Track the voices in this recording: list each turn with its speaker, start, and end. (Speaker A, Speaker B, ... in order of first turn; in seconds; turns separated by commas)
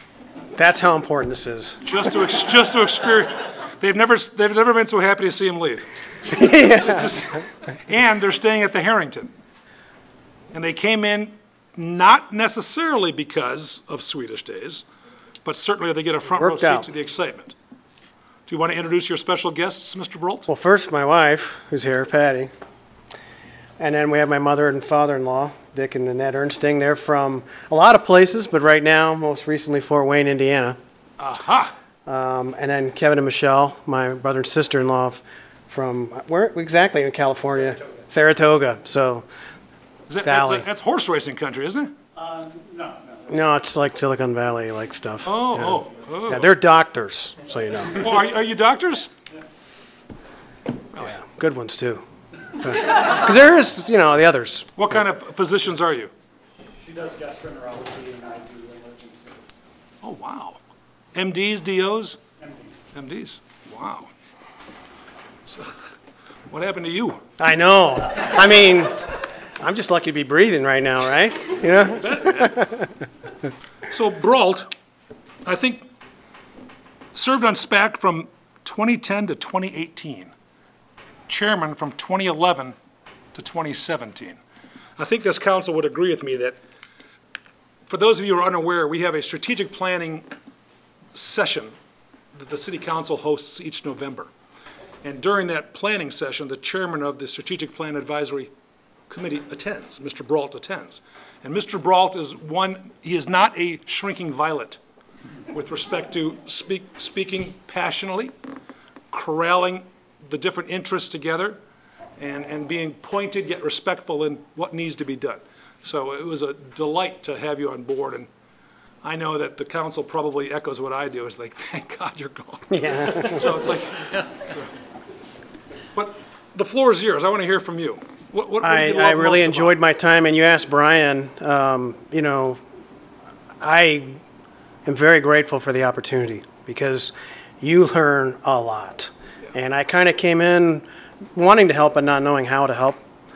Speaker A: 0.6-1.8, Speaker B: 1.8-5.9, Speaker A: 6.3-7.2, Speaker B: 6.6-9.3, Speaker B: 10.5-14.8, Speaker B: 15.4-17.5, Speaker A: 16.2-16.9, Speaker B: 18.5-20.5, Speaker A: 20.5-22.5, Speaker A: 23.8-30.8, Speaker B: 31.2-31.7, Speaker A: 32.0-39.3, Speaker B: 40.1-41.9, Speaker A: 40.2-40.7, Speaker C: 42.2-43.2, Speaker A: 43.3-48.1, Speaker B: 45.2-46.5, Speaker B: 47.9-49.1, Speaker A: 51.0-55.0, Speaker B: 54.8-56.1, Speaker C: 56.8-59.5, Speaker B: 60.0-60.6, Speaker B: 61.1-62.2, Speaker C: 62.4-62.7, Speaker B: 62.9-64.1, Speaker B: 65.5-65.7, Speaker B: 66.5-67.2, Speaker A: 67.4-72.8, Speaker B: 71.9-72.8, Speaker B: 73.9-74.7, Speaker B: 75.4-75.9, Speaker B: 77.1-80.3, Speaker B: 81.3-82.7, Speaker B: 83.3-84.4, Speaker B: 85.0-86.6, Speaker B: 87.9-90.2, Speaker B: 91.1-91.7, Speaker B: 92.3-94.3, Speaker B: 95.0-98.5, Speaker B: 99.1-104.8, Speaker B: 105.5-108.3, Speaker B: 109.1-111.6, Speaker B: 112.2-118.3, Speaker B: 119.0-124.7, Speaker A: 122.7-123.6, Speaker B: 125.9-129.8, Speaker A: 128.6-132.6, Speaker A: 133.6-134.2, Speaker A: 134.8-143.0